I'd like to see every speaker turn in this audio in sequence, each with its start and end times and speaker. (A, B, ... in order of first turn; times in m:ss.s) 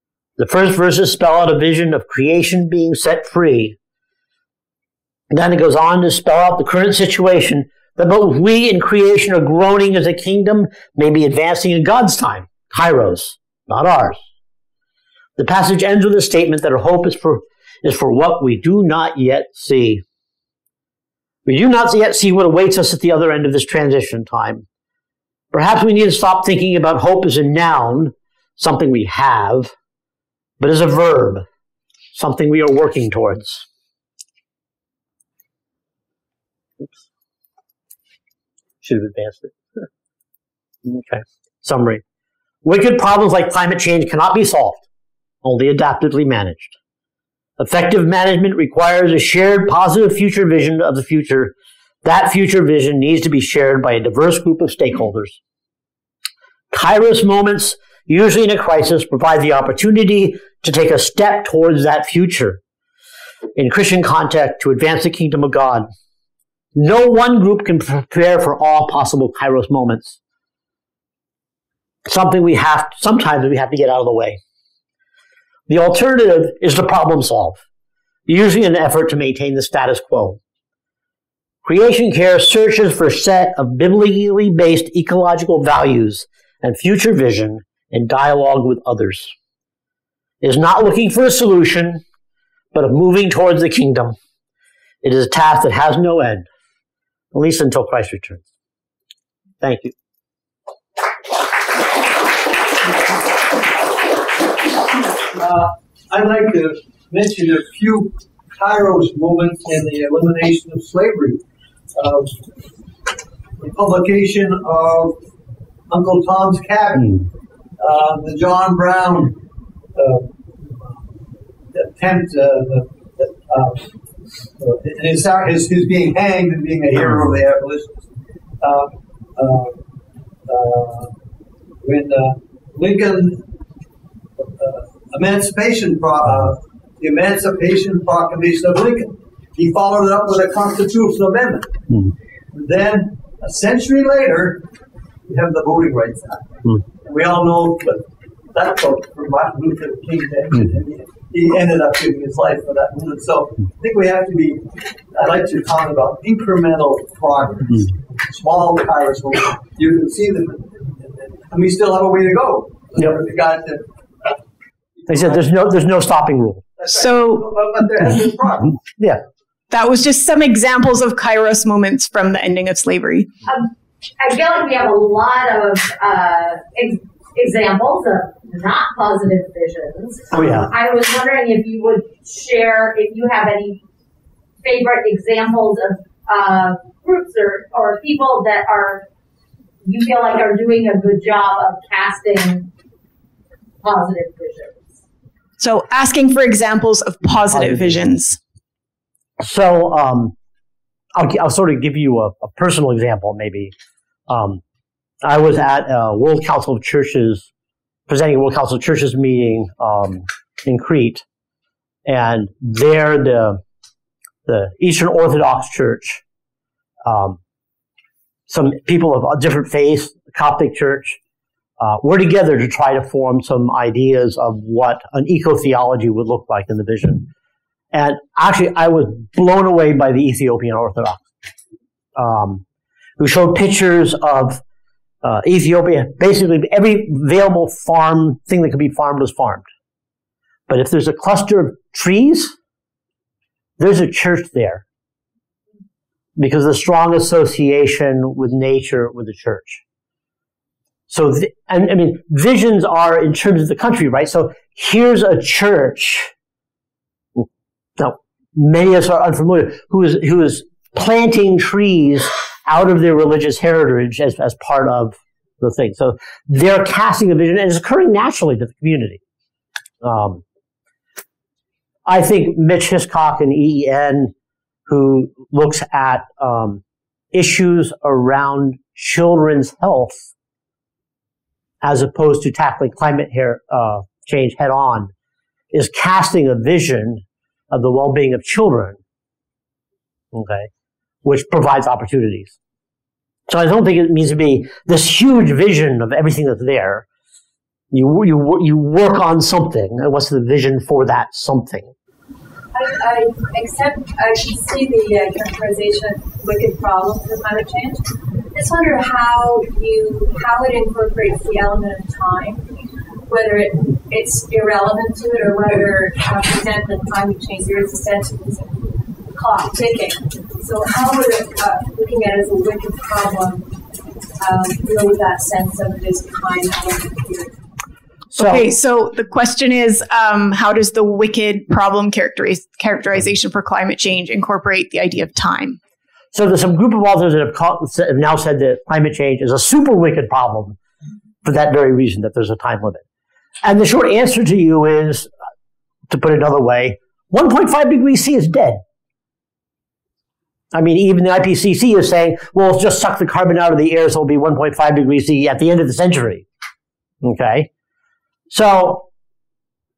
0:00.4-0:03.8 A
0:05.3-0:14.2 A
0:15.4-0:20.0 A
0:21.5-0:24.6 A
0:25.5-0:29.7 A
0:30.6-0:31.4 A
0:32.1-0:33.7 A
0:38.8-0:39.9 A
0:40.9-0:42.0 A
0:42.6-0:44.8 A
0:45.4-0:46.8 A
0:47.6-0:55.4 A
0:56.7-1:02.6 A
1:03.6-1:05.9 A
1:06.8-1:10.2 A
1:12.1-1:14.4 A
1:15.7-1:17.6 A
1:18.3-1:20.4 A
1:21.6-1:29.3 A
1:30.4-1:32.0 A
1:32.7-1:34.2 A
1:35.0-1:36.5 A
1:37.3-1:38.4 A
1:39.6-1:39.9 A
1:45.3-1:51.4 B
1:51.9-1:52.4 B
1:53.6-1:55.2 B
1:55.9-1:59.4 B
2:00.0-2:00.9 B
2:01.7-2:03.9 B
2:04.6-2:08.0 B
2:08.6-2:09.8 B
2:10.5-2:11.1 B
2:11.8-2:13.4 B
2:14.4-2:21.8 B
2:22.5-2:24.7 B
2:25.3-2:44.3 B
2:45.1-2:45.4 B
2:45.1-2:46.6 A
2:46.8-2:48.8 B
2:46.9-2:47.4 C
2:49.7-2:53.3 C
2:53.5-3:03.8 D
3:00.3-3:00.7 A
3:04.6-3:09.1 D
3:09.8-3:12.7 D
3:13.8-3:14.8 D
3:15.6-3:18.4 C
3:17.5-3:18.0 A
3:19.4-3:20.4 A
3:21.2-3:23.7 A
3:24.3-3:24.6 A
3:25.2-3:27.5 A
3:28.1-3:31.2 A
3:32.1-3:33.6 A
3:34.5-3:36.2 A
3:37.1-3:37.4 A
3:38.5-3:41.2 A
3:41.8-3:47.3 A
3:47.9-3:51.3 A
3:52.2-3:52.6 A
3:53.2-3:54.6 A
3:55.2-3:59.6 A
4:00.7-4:02.5 A
4:03.8-4:04.8 A
4:06.4-4:09.8 A
4:11.1-4:16.3 A
4:18.0-4:29.2 A
4:30.0-4:30.4 A
4:32.1-4:34.3 A
4:34.9-4:36.8 A
4:37.3-4:40.3 A
4:41.8-4:45.1 A
4:45.7-4:49.0 A
4:50.3-4:50.7 A
4:51.2-4:52.6 A
4:53.5-4:57.1 A
4:57.9-5:01.9 A
5:02.7-5:12.7 E
5:13.3-5:23.7 E
5:24.4-5:27.6 E
5:28.3-5:28.7 A
5:28.4-5:35.8 C
5:36.3-5:40.8 A
5:41.4-5:43.0 A
5:43.6-5:45.3 A
5:46.1-5:48.8 A
5:50.7-5:56.4 A
5:57.2-5:57.7 A
5:58.5-5:59.1 A